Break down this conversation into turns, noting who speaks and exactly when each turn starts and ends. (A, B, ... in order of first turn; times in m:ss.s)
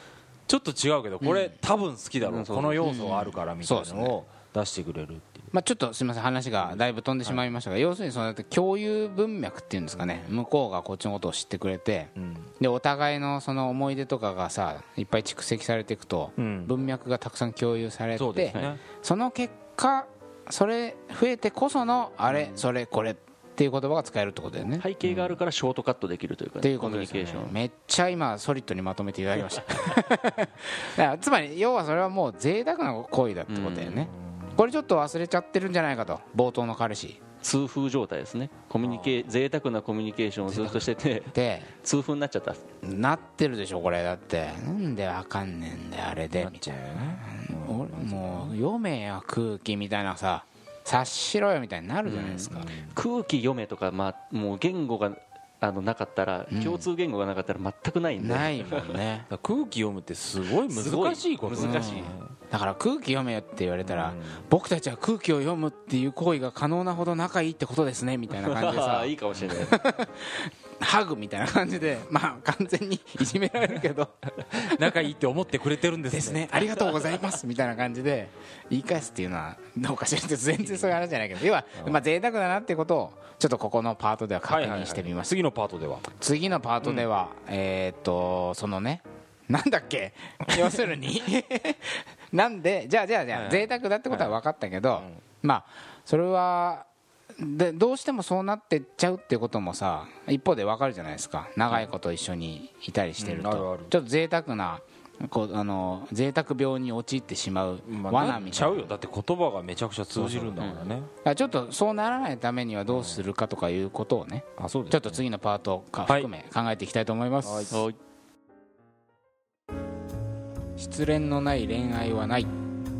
0:00.5-0:05.5 A
0:02.2-0:03.2 B
0:02.8-0:04.2 C
0:05.5-0:24.8 C
0:06.6-0:07.5 A
0:10.0-0:10.4 A
0:12.2-0:12.5 A
0:16.4-0:16.7 A
0:18.2-0:18.8 A
0:22.3-0:22.6 A
0:24.8-0:27.6 B
0:25.0-0:25.4 A
0:26.6-0:37.2 C
0:33.5-0:34.1 B
0:34.2-0:34.6 A
0:37.4-0:42.6 B
0:38.8-0:39.3 A
0:41.3-0:41.7 C
0:42.8-0:52.7 C
0:46.4-0:48.6 A
0:52.0-0:59.0 B
0:52.5-0:53.0 A
0:56.5-0:56.9 C
0:58.2-0:59.3 C
0:59.3-1:02.3 A
1:00.6-1:02.1 B
1:01.6-1:15.0 C
1:03.8-1:04.5 A
1:08.3-1:09.8 B
1:14.5-1:16.9 A
1:16.1-1:25.3 C
1:24.5-1:26.1 A
1:26.2-1:36.9 C
1:33.3-1:34.4 A
1:37.4-1:48.9 C
1:43.2-1:43.9 A
1:47.9-1:51.1 A
1:50.2-1:50.6 C
1:50.6-1:50.9 B
1:51.2-1:57.8 C
1:52.9-1:53.2 A
1:54.6-1:55.2 A
1:57.4-1:57.8 A
1:57.7-1:58.0 B
2:00.8-2:02.5 C